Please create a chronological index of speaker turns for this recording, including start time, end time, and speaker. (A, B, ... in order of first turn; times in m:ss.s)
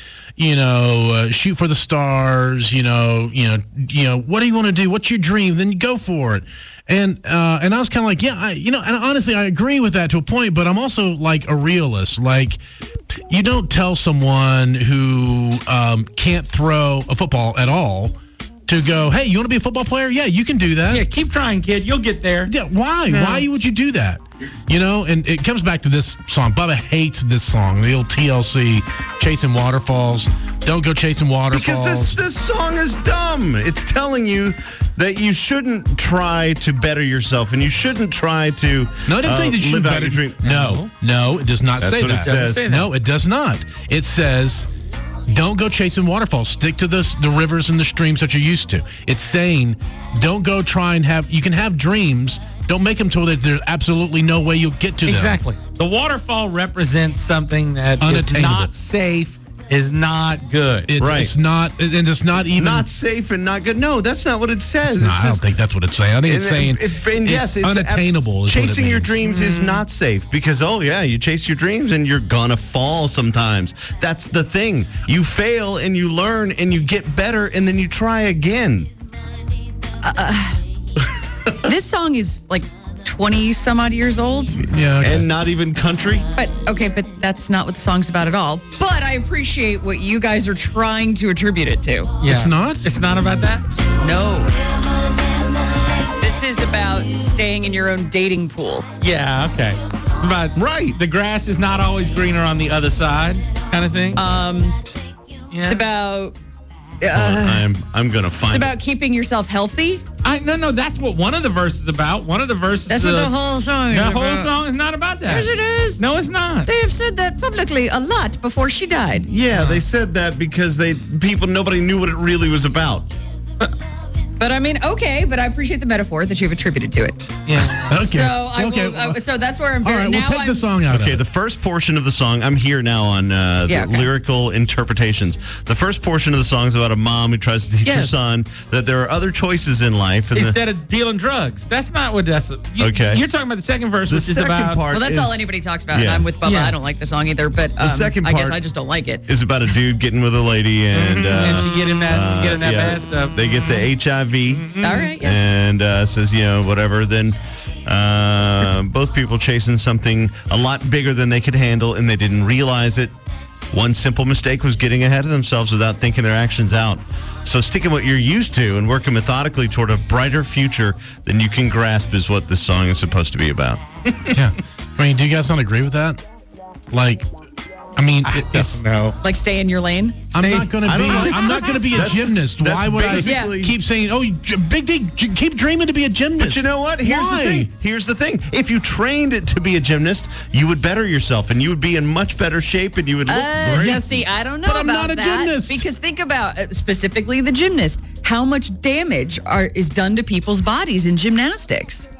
0:00.4-0:12.6 A
0:13.3-0:18.1 A
0:18.7-0:21.0 A
0:20.9-0:22.5 B
0:22.4-0:32.2 A
0:23.0-0:23.5 B
0:31.5-0:40.6 C
0:39.1-0:44.7 A
0:40.4-0:40.9 B
0:41.8-0:42.6 C
0:42.2-0:42.9 B
0:45.3-0:55.4 A
0:55.0-1:00.9 B
0:58.0-0:58.7 A
1:00.9-1:02.9 A
1:01.0-1:01.3 C
1:02.5-1:05.5 C
1:04.8-1:09.2 A
1:06.2-1:18.9 C
1:09.2-1:09.8 B
1:20.0-1:20.6 D
1:21.6-1:24.6 D
1:24.6-1:25.2 A
1:25.0-1:26.2 C
1:26.3-1:32.1 D
1:32.2-1:33.6 B
1:32.2-1:32.9 A
1:34.0-1:34.5 D
1:36.0-1:38.8 D
1:39.0-1:44.2 B
1:40.6-1:41.0 C
1:44.2-1:44.8 D
1:45.5-1:45.8 B
1:45.6-1:46.3 D
1:47.0-1:47.7 D
1:47.1-1:48.8 C
1:48.5-1:50.0 D
1:50.2-1:53.3 B
1:52.9-1:54.5 D
1:53.9-1:56.7 B
1:55.2-1:56.0 D
1:56.6-1:59.3 D
1:59.2-2:03.1 C
1:59.5-1:59.8 B
2:04.4-2:07.3 D
2:07.5-2:08.0 B
2:07.9-2:09.2 A
2:07.9-2:10.7 D
2:09.8-2:11.2 A
2:10.9-2:20.6 C
2:13.7-2:14.1 D
2:17.8-2:18.2 B
2:20.3-2:24.8 B
2:22.8-2:23.2 C
2:24.1-2:26.3 C
2:24.9-2:29.2 D
2:26.4-2:26.8 B
2:27.8-2:28.6 C
2:29.2-2:43.1 C
2:30.9-2:33.9 B
2:34.5-2:35.1 B
2:34.8-2:35.5 D
2:43.7-2:53.8 C
2:54.3-2:56.2 A
2:56.9-2:57.3 A
2:58.0-2:58.8 A
2:58.2-2:59.2 B
2:59.2-3:00.2 D
3:00.3-3:01.3 B
3:00.3-3:07.7 A
3:00.8-3:03.7 C
3:03.1-3:03.5 D
3:06.4-3:14.2 C
3:13.3-3:22.1 D
3:14.6-3:15.8 A